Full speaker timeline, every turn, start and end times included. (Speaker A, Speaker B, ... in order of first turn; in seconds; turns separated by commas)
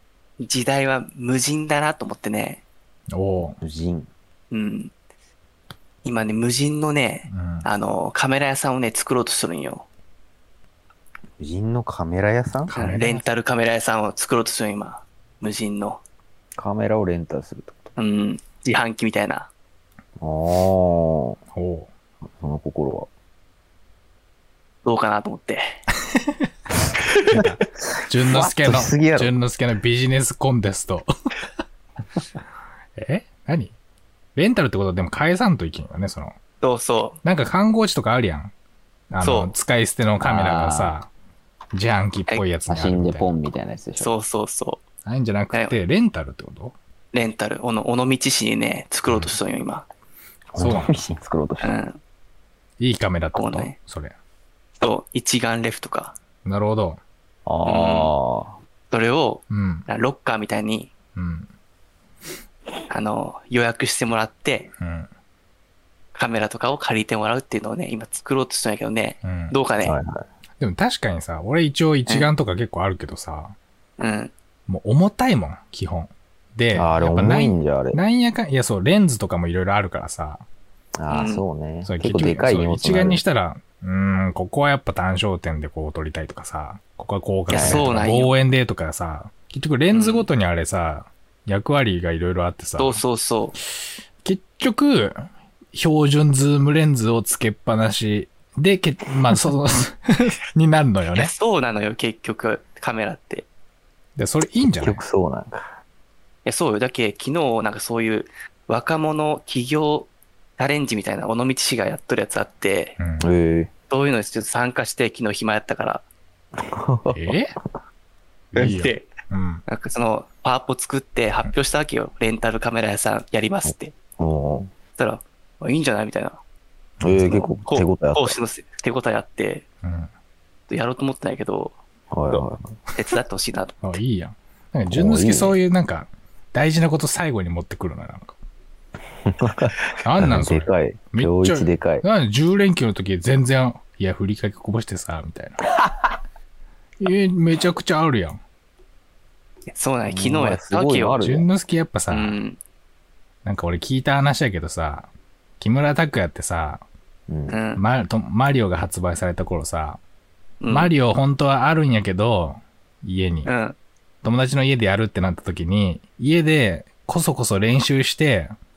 Speaker A: 0.4-2.6, Speaker B: 3.1-3.6, Speaker C: 3.6-4.1, Speaker A: 4.5-4.9, Speaker A: 6.0-9.8, Speaker B: 7.3-7.7, Speaker C: 11.4-12.7, Speaker B: 12.7-13.3, Speaker A: 12.7-16.0, Speaker C: 16.6-17.9, Speaker A: 17.9-19.5, Speaker C: 20.2-21.4, Speaker B: 21.5-21.9, Speaker C: 22.4-23.1, Speaker A: 24.8-25.8, Speaker A: 27.0-27.4, Speaker B: 27.2-31.1, Speaker C: 28.3-29.3, Speaker B: 33.0-33.7, Speaker B: 34.4-36.4, Speaker A: 36.6-37.2, Speaker B: 37.2-38.5, Speaker B: 39.1-41.1, Speaker A: 39.2-39.5, Speaker C: 40.2-41.0, Speaker B: 41.7-43.3, Speaker C: 42.7-44.1, Speaker A: 44.0-44.8, Speaker B: 45.0-46.8, Speaker A: 47.1-49.9, Speaker B: 49.1-49.4, Speaker C: 50.5-51.8, Speaker B: 50.6-51.1, Speaker A: 51.6-52.0, Speaker B: 52.8-54.1, Speaker A: 53.4-53.8, Speaker A: 54.8-56.1, Speaker B: 56.5-57.0, Speaker C: 57.5-58.6, Speaker A: 57.6-58.1, Speaker A: 58.9-60.9, Speaker B: 59.5-59.9, Speaker B: 61.2-61.5, Speaker A: 62.9-64.7, Speaker B: 64.8-65.1, Speaker A: 66.1-70.0, Speaker B: 69.2-69.6, Speaker C: 69.8-70.2, Speaker B: 70.6-73.6, Speaker A: 74.0-74.3, Speaker B: 74.7-80.4, Speaker C: 76.8-78.0, Speaker C: 81.0-83.2, Speaker A: 81.1-81.4, Speaker B: 81.8-93.0, Speaker A: 87.5-88.3, Speaker C: 87.5-87.9, Speaker A: 89.9-90.3, Speaker A: 92.8-93.5, Speaker B: 94.2-95.2, Speaker B: 95.7-101.3, Speaker A: 101.1-103.5, Speaker B: 104.2-105.0, Speaker C: 104.8-105.8, Speaker A: 106.5-113.0, Speaker B: 113.0-113.3, Speaker C: 113.2-113.7, Speaker A: 113.9-116.0, Speaker C: 116.6-117.3, Speaker B: 117.1-117.6, Speaker B: 118.5-119.6, Speaker A: 118.6-119.1, Speaker A: 119.7-123.9, Speaker C: 123.6-124.7, Speaker A: 125.0-126.4, Speaker B: 127.0-127.5, Speaker C: 127.0-128.4, Speaker A: 127.3-129.6, Speaker B: 129.8-130.1, Speaker A: 130.7-131.8, Speaker C: 132.1-132.8, Speaker A: 132.3-133.8, Speaker B: 133.8-138.3, Speaker C: 134.9-135.6, Speaker C: 139.2-142.0, Speaker B: 140.0-145.7, Speaker B: 147.0-148.4, Speaker A: 149.7-151.3, Speaker C: 150.1-151.5, Speaker B: 151.2-152.4, Speaker A: 152.1-152.6, Speaker B: 153.4-155.1, Speaker B: 155.6-156.8, Speaker C: 157.3-157.6, Speaker A: 157.5-157.8, Speaker B: 157.8-160.0, Speaker A: 160.6-160.9, Speaker B: 160.7-163.5, Speaker A: 163.4-163.8, Speaker B: 164.2-168.5